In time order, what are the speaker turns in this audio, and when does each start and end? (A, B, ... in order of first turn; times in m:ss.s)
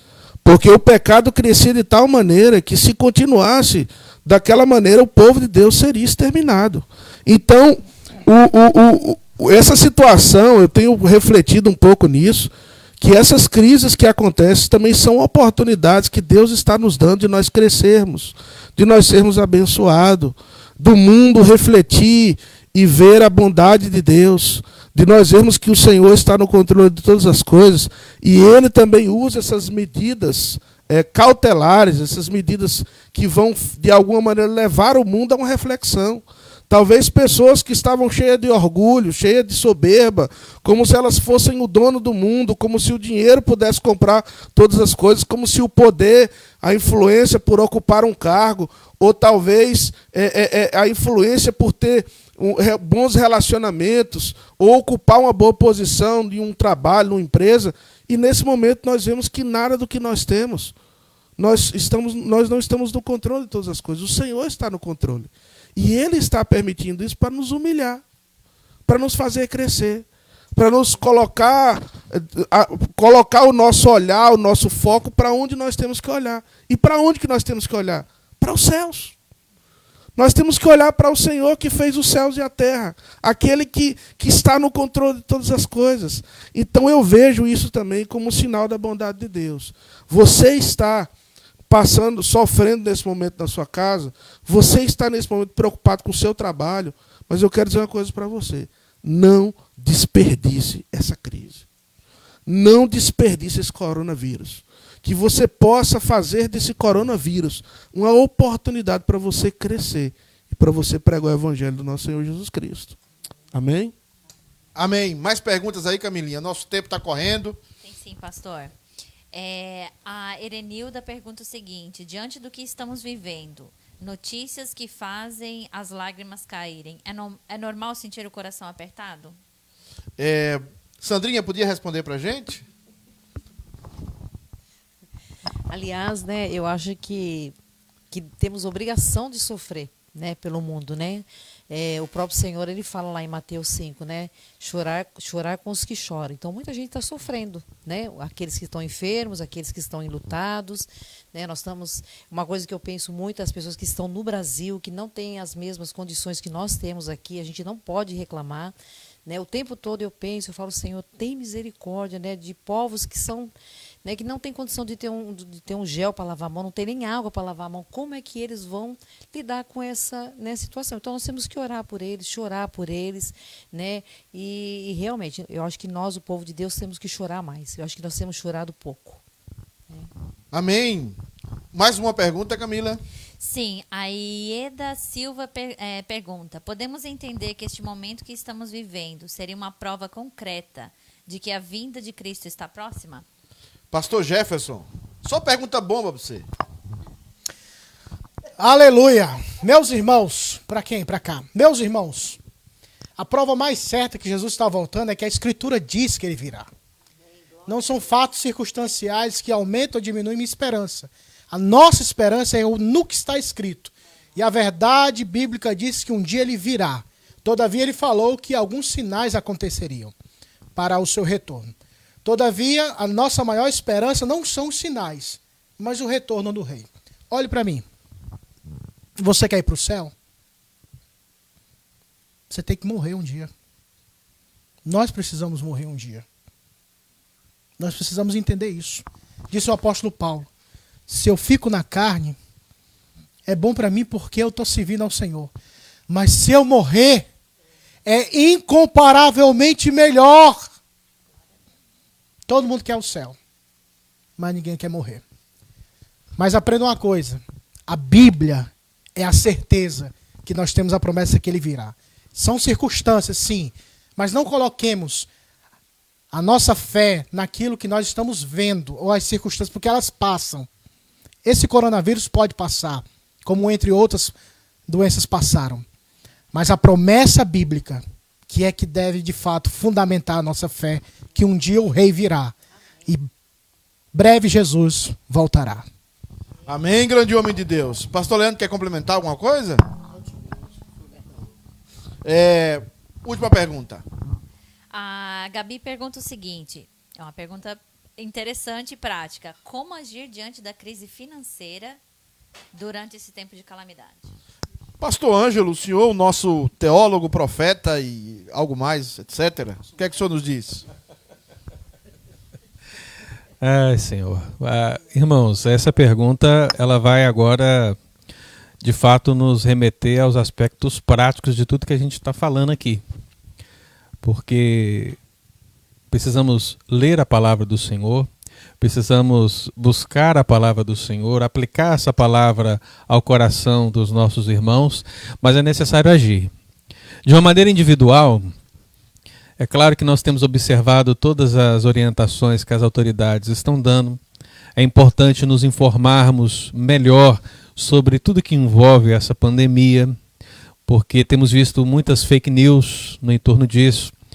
0:00.4-1:00.7 A
1:01.4-1:08.0 A
1:08.9-1:19.1 A
1:20.2-1:31.1 A
1:31.7-1:41.6 A
1:42.4-1:53.0 A
1:53.5-1:53.9 A
1:54.7-1:57.6 B
1:57.8-1:58.7 C
1:59.3-2:09.4 C
2:10.2-2:12.6 B
2:15.7-2:17.6 D
2:18.1-2:38.7 D
2:39.2-2:43.5 D
2:44.0-2:59.2 D
3:00.5-3:01.2 B
3:01.7-3:03.0 B
3:03.4-3:13.2 C
3:13.9-3:16.5 B
3:18.6-3:22.4 E
3:23.2-3:26.7 E
3:27.6-3:40.1 E
3:40.8-3:41.7 E
3:42.2-3:47.8 E
3:49.2-3:50.1 E
3:52.5-3:53.5 E
3:54.8-3:56.2 E
3:57.8-4:00.5 E
4:01.1-4:02.4 E
4:03.4-4:05.5 E
4:06.1-4:07.3 E
4:08.0-4:10.6 E
4:12.5-4:13.4 E
4:14.4-4:15.2 E
4:16.4-4:25.3 E
4:26.3-4:30.7 E
4:31.4-4:34.3 E
4:34.9-4:35.8 E
4:36.5-4:42.5 E
4:44.1-4:45.8 E
4:46.7-4:49.8 B
4:52.2-4:54.0 B
4:54.9-5:02.0 C
5:02.7-5:04.3 C
5:05.0-5:10.8 B
5:13.6-5:18.0 F
5:18.8-5:23.0 F
5:24.2-5:25.2 F
5:26.1-5:28.3 F
5:28.8-5:36.5 F
5:37.2-5:38.5 F
5:39.6-5:44.2 F
5:44.8-5:50.2 F
5:50.9-5:54.1 F